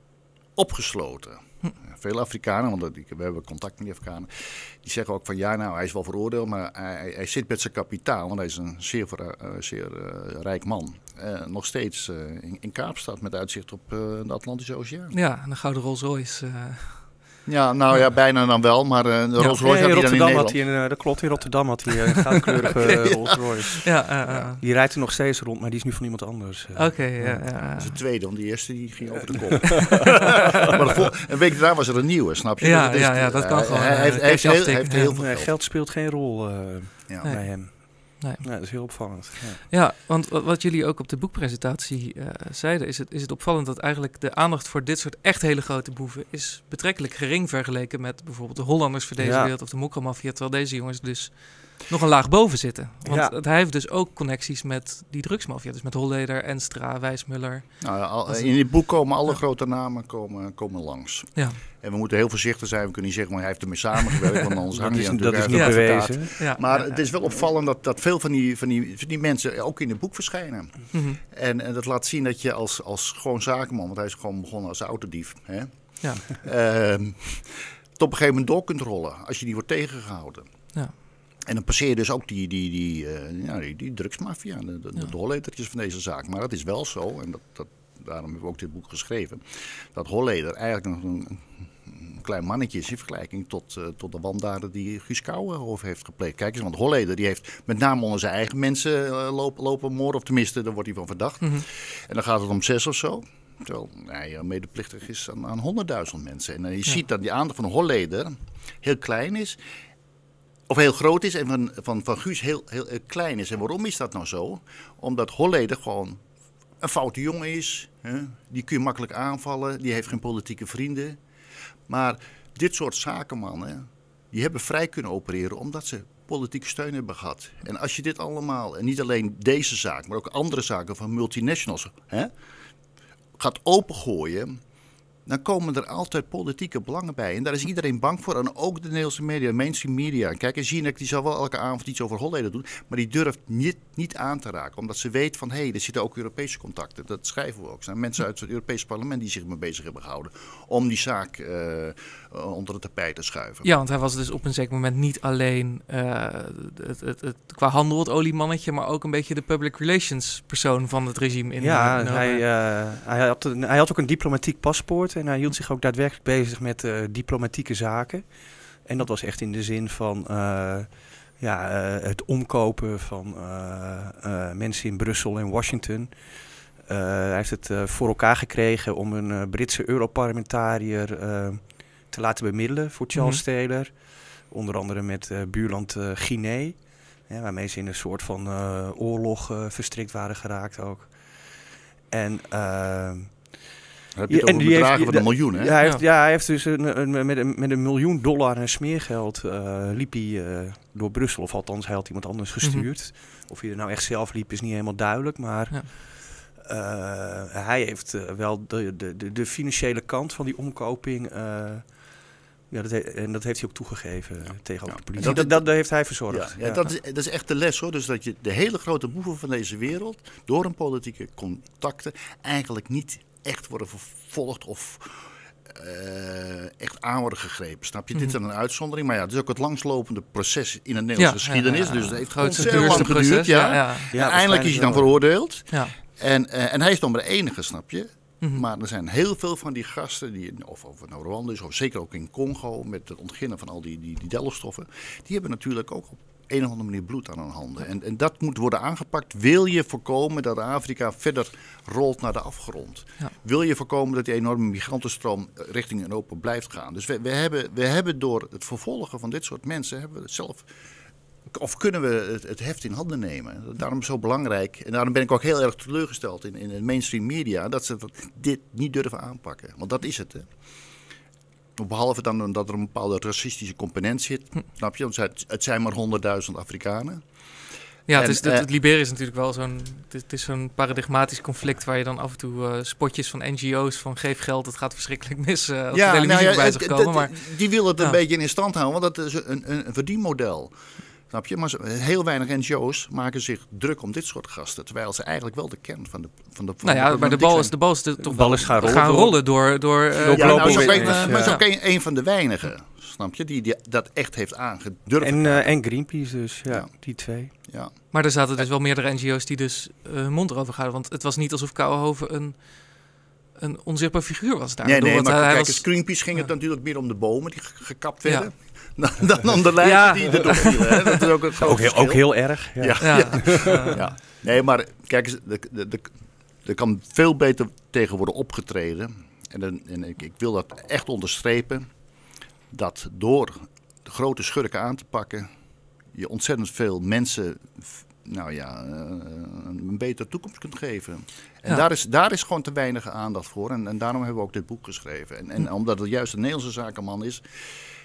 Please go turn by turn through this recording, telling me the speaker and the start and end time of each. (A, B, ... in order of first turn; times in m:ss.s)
0:00.6-0:15.2 A
0:15.1-0:17.4 B
0:17.5-0:20.6 A
0:19.6-0:27.5 C
0:22.8-0:23.6 A
0:23.8-0:24.6 B
0:26.8-0:28.0 B
0:27.7-0:35.5 A
0:29.7-0:30.7 B
0:32.6-0:35.2 B
0:35.2-0:39.7 C
0:37.1-0:37.3 A
0:37.2-0:39.1 B
0:39.7-0:58.6 B
0:49.2-0:49.5 C
0:53.0-0:53.4 C
0:57.8-1:20.5 A
1:01.4-1:01.6 B
1:04.7-1:06.4 C
1:05.5-1:07.0 B
1:10.9-1:11.2 B
1:21.4-1:49.6 A
1:50.7-1:56.2 A
1:56.8-2:01.2 A
2:01.9-2:12.3 A
2:13.4-2:14.6 A
2:15.3-2:33.7 A
2:33.6-2:42.4 B
2:41.6-3:13.6 C
3:03.1-3:03.4 B
3:14.1-3:15.7 A
3:14.3-3:36.8 C
3:22.6-3:22.9 B
3:34.9-4:20.7 A
3:51.2-3:54.1 B
3:52.6-3:53.1 C
3:54.1-3:55.2 C
3:55.7-3:56.0 B
4:21.5-4:30.5 A
4:31.8-4:37.3 A
4:38.1-4:48.2 B
4:38.1-4:38.7 A
4:45.9-4:50.7 A
4:51.3-4:57.8 A
4:56.8-5:01.7 B
4:58.2-5:01.6 C
4:58.7-4:58.9 A
5:00.3-5:05.8 A
5:05.2-5:07.5 C
5:07.5-5:08.0 A
5:08.1-5:16.4 B
5:14.8-5:31.9 A
5:19.8-5:21.3 B
5:21.6-5:24.0 C
5:23.0-5:24.0 B
5:32.7-5:35.5 A
5:36.1-5:47.9 A